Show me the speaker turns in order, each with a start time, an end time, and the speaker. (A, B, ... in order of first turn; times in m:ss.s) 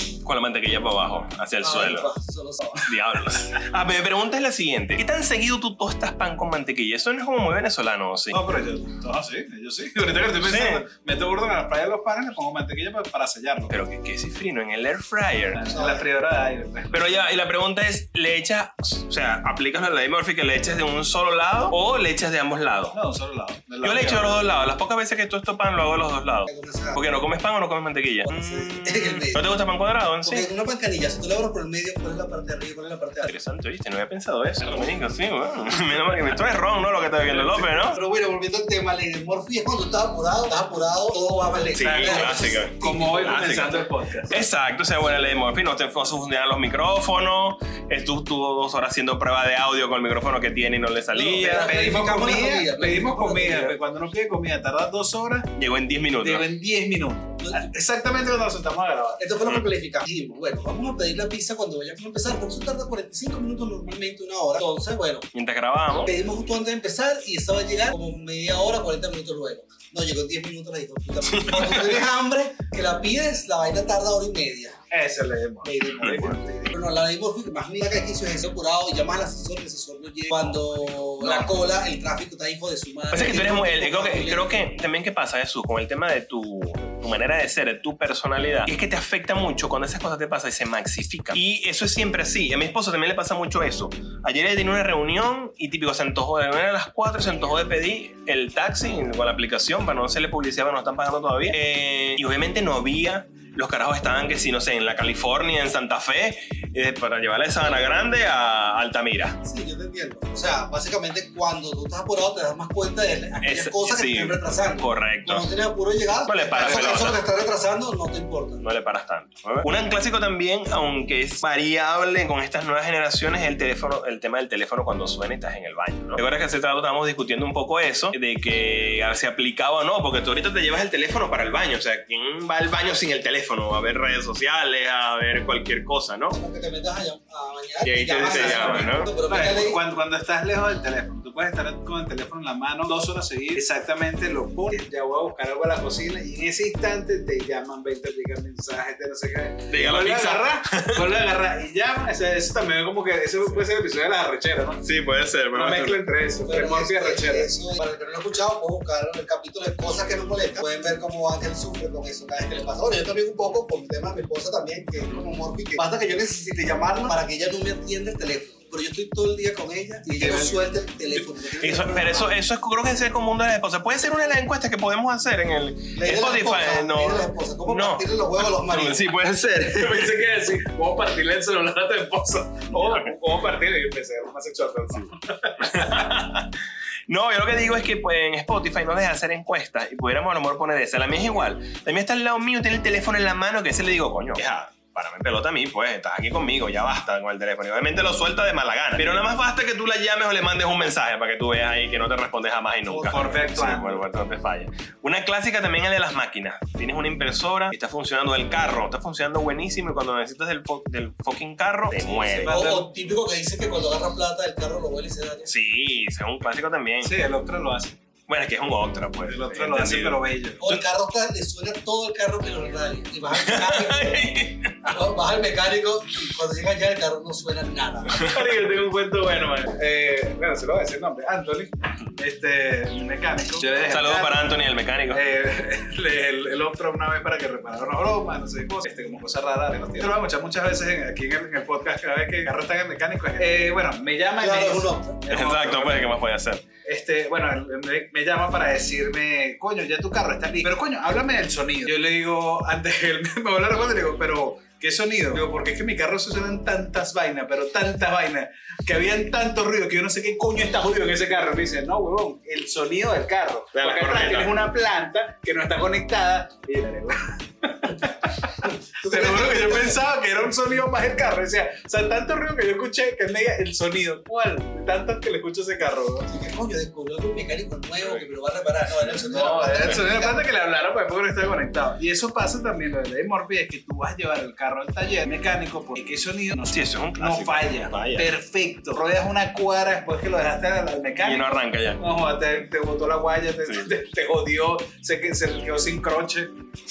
0:00.2-0:02.1 A
0:01.6-0:02.9 B
0:02.8-0:08.4 A
0:08.3-0:13.7 C
0:10.4-0:10.8 A
0:13.7-0:15.7 A
0:15.5-0:17.3 C
0:15.7-0:16.1 B
0:16.9-0:23.0 A
0:22.9-0:24.5 C
0:23.8-0:30.5 A
0:26.5-0:27.0 B
0:28.3-0:29.5 B
0:30.2-0:33.3 B
0:33.2-0:38.0 A
0:37.4-0:43.6 B
0:41.7-0:44.4 C
0:41.7-0:51.7 A
0:51.1-0:53.8 B
0:51.4-0:55.5 C
0:55.6-0:56.5 A
0:56.2-0:59.2 C
0:57.4-0:57.7 B
0:59.2-1:05.3 B
1:05.3-1:06.1 A
1:06.0-1:14.8 B
1:11.2-1:12.0 A
1:14.9-1:16.6 C
1:15.6-1:24.5 B
1:16.0-1:16.3 A
1:20.4-1:21.6 C
1:23.1-1:49.4 A
1:49.4-1:58.6 B
1:53.4-1:55.5 A
1:56.2-1:57.2 A
1:56.6-1:56.9 C
1:58.6-2:16.4 A
2:16.3-2:19.8 B
2:17.8-2:19.1 A
2:18.2-2:34.8 C
2:29.7-2:31.0 A
2:34.8-2:36.0 A
2:35.5-2:37.5 C
2:36.4-2:52.3 B
2:50.2-2:50.6 C
2:51.6-3:00.1 A
2:55.9-2:59.1 B
2:59.6-3:06.0 C
3:02.8-3:03.1 A
3:05.6-3:06.5 A
3:07.1-3:32.6 A
3:22.9-3:24.0 C
3:32.2-3:35.5 B
3:32.3-3:32.9 C
3:35.5-3:37.2 A
3:37.0-3:38.0 C
3:38.3-3:40.8 A
3:39.2-3:40.7 C
3:40.6-3:48.2 B
3:43.3-3:44.9 A
3:48.2-3:54.5 C
3:53.8-3:55.2 A
3:55.1-4:06.1 C
4:04.4-4:05.2 B
4:05.3-4:06.6 A
4:06.8-4:36.3 C
4:23.7-4:24.5 A
4:29.0-4:30.0 B
4:36.3-4:40.4 B
4:39.0-4:56.5 C
4:46.7-4:48.3 A
4:51.2-4:52.0 A